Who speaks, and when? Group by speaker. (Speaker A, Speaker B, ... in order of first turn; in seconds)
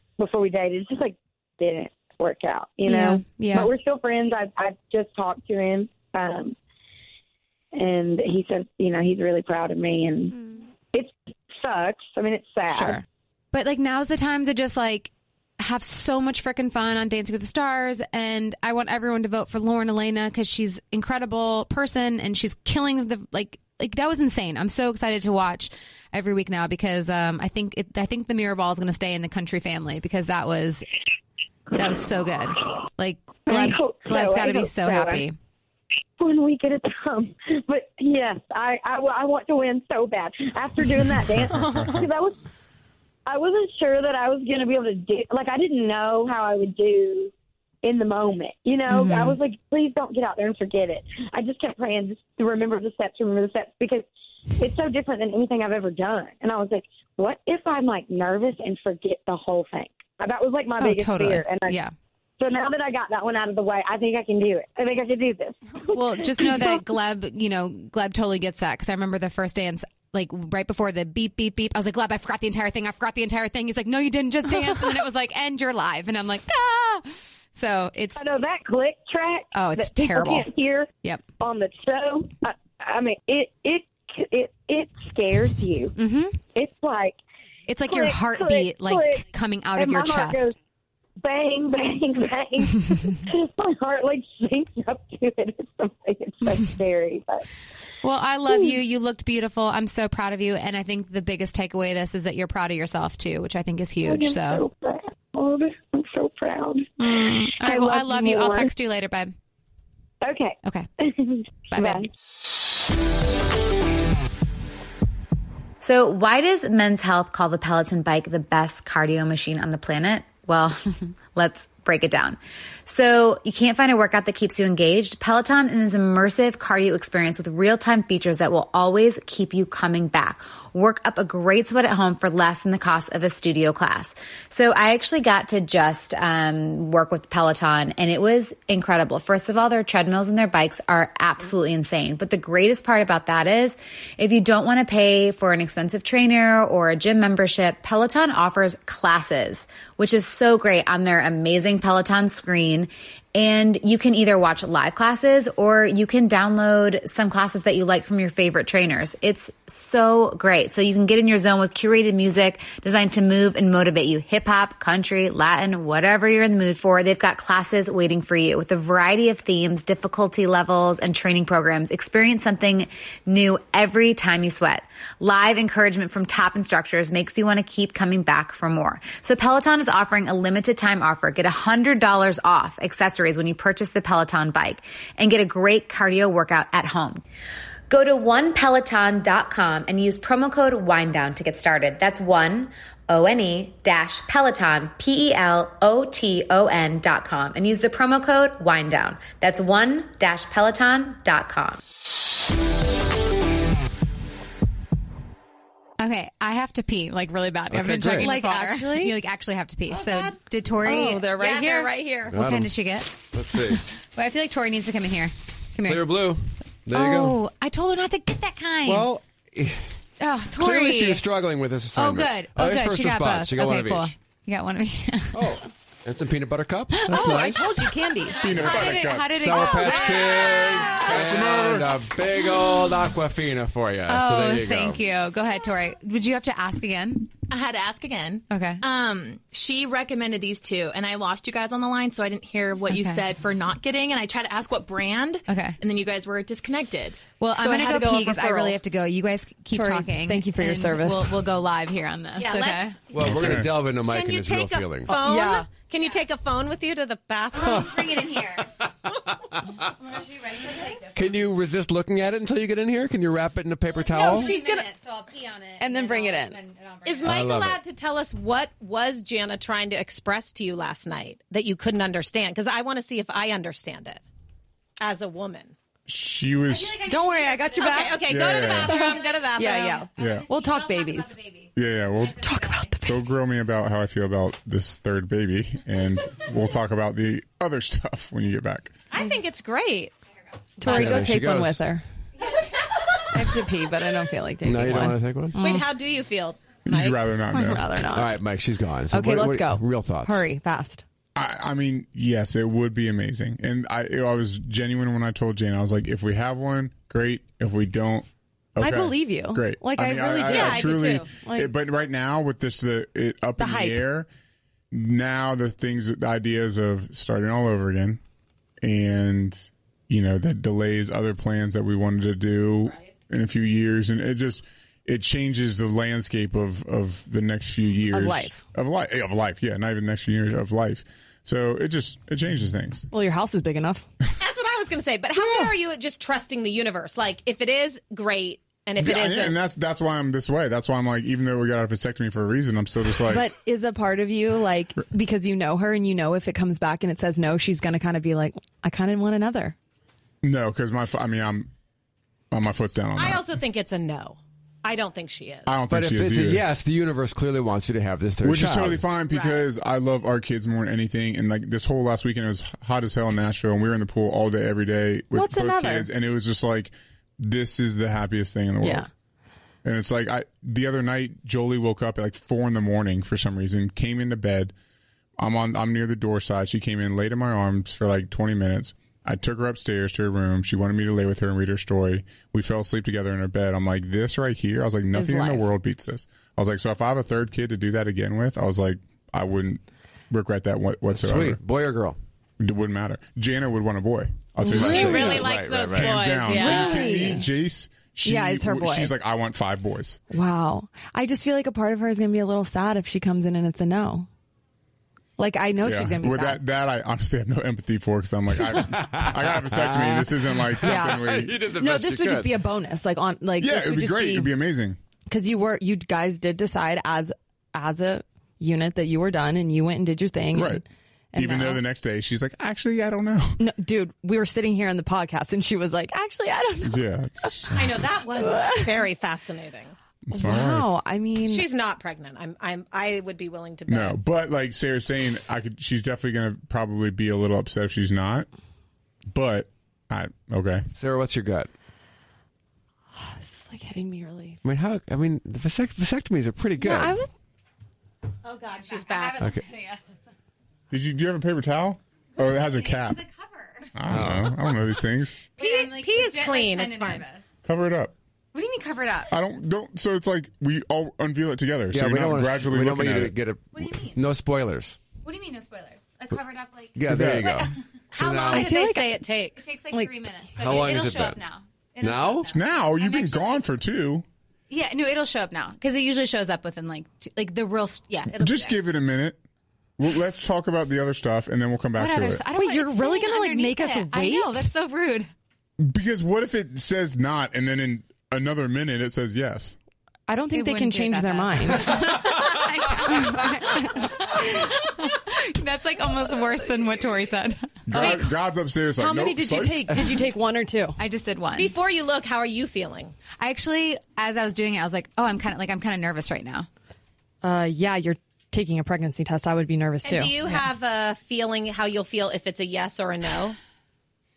Speaker A: 0.2-6.5, 7.7-10.4, 10.9-13.0, 33.5-35.2, 36.2-42.4, 43.2-47.3, 47.8-54.0, 54.6-61.8, 62.4-66.8, 78.1-87.2, 87.9-90.5, 91.2-97.4, 98.5-98.8, 104.0-108.7, 110.2-112.1
Speaker B: 2.9-3.7, 12.7-30.9, 31.8-35.4, 41.6-41.9, 48.9-49.4, 60.8-61.9, 65.9-78.2, 79.5-80.5, 86.0-86.4, 87.7-90.5, 98.0-104.6, 107.0-109.3, 111.7-112.0, 206.0-213.2, 213.8-216.2, 216.9-219.1, 220.2-221.2, 221.9-225.4, 226.9-231.2, 234.1-237.3, 238.5-238.8, 242.9-243.2, 245.5-245.8, 247.4-253.0, 257.5-258.7, 260.0-261.4, 263.9-267.4, 276.7-282.9, 448.7-450.0, 452.6-453.9, 455.6-457.4, 458.5-459.3, 463.7-464.2, 465.2-467.8, 469.6-473.7, 474.7-478.8, 482.0-485.3, 490.5-497.7, 501.0-501.7, 503.4-506.7
Speaker C: 41.6-41.9, 228.4-230.0, 231.0-231.9, 253.2-253.7, 276.1-277.0, 278.2-279.0, 280.1-280.5, 281.8-282.4, 283.0-288.9, 296.8-297.9, 301.4-314.3, 314.9-318.2, 318.8-333.1, 339.0-343.5, 350.4-351.7, 352.5-353.4, 355.6-356.6, 358.4-369.0, 369.8-374.7, 375.4-391.6, 392.6-400.2, 405.8-411.6, 413.6-415.0, 420.5-420.8, 421.3-423.6, 426.8-427.9, 430.2-430.9, 433.9-438.5, 439.3-440.9, 450.9-453.2, 453.9-455.4, 457.6-458.1, 459.3-463.4, 467.1-467.6, 472.5-474.2, 478.4-479.4, 480.0-482.4, 485.8-489.8, 497.9-500.1
Speaker D: 115.8-187.2, 187.9-201.8
Speaker E: 207.7-208.3, 212.3-212.7, 213.3-213.8, 215.8-217.4, 218.8-219.9, 220.6-224.1, 225.3-227.8, 228.5-228.8, 229.3-235.0, 253.1-255.2, 261.1-264.5, 267.2-267.8, 290.8-291.8, 294.6-295.6, 298.1-300.5, 355.9-359.0, 391.1-392.1, 394.6-396.2, 408.9-412.5, 440.9-441.7, 444.6-447.2, 454.1-454.5, 461.9-465.0, 467.0-468.7, 470.6-471.4, 472.0-472.5
Speaker F: 208.1-209.1, 210.8-211.9, 227.2-227.7, 249.7-251.4, 255.1-255.7, 264.1-264.9, 265.8-266.6, 277.0-281.4, 282.4-283.2, 290.8-292.0, 293.3-295.9, 297.5-298.4, 299.1-301.0, 308.8-311.7, 313.6-314.0, 328.1-328.6, 333.1-334.1, 343.3-349.7, 365.3-366.1, 368.8-369.1, 385.1-385.7, 394.6-395.4, 396.5-397.5, 398.2-399.1, 400.3-404.3, 405.4-406.6, 410.8-414.5, 415.3-421.8, 423.6-427.1, 428.4-429.0, 430.3-431.6, 443.1-444.6, 446.8-447.3, 468.5-469.2, 482.5-484.7, 490.3-494.1, 497.9-498.3, 499.0-501.0, 507.4-510.3
Speaker G: 209.9-210.4, 211.3-212.3, 252.4-252.9, 254.1-258.2, 267.0-274.2, 275.0-275.7, 277.8-280.1, 289.1-290.1, 295.6-297.3, 310.4-311.3, 322.8-323.1, 334.4-339.6, 353.1-355.8, 359.3-359.6, 394.7-397.2, 427.7-429.9, 431.4-434.2, 448.4-449.4, 455.5-457.2, 468.1-469.7, 501.6-503.1, 510.0-513.6
Speaker H: 237.5-248.2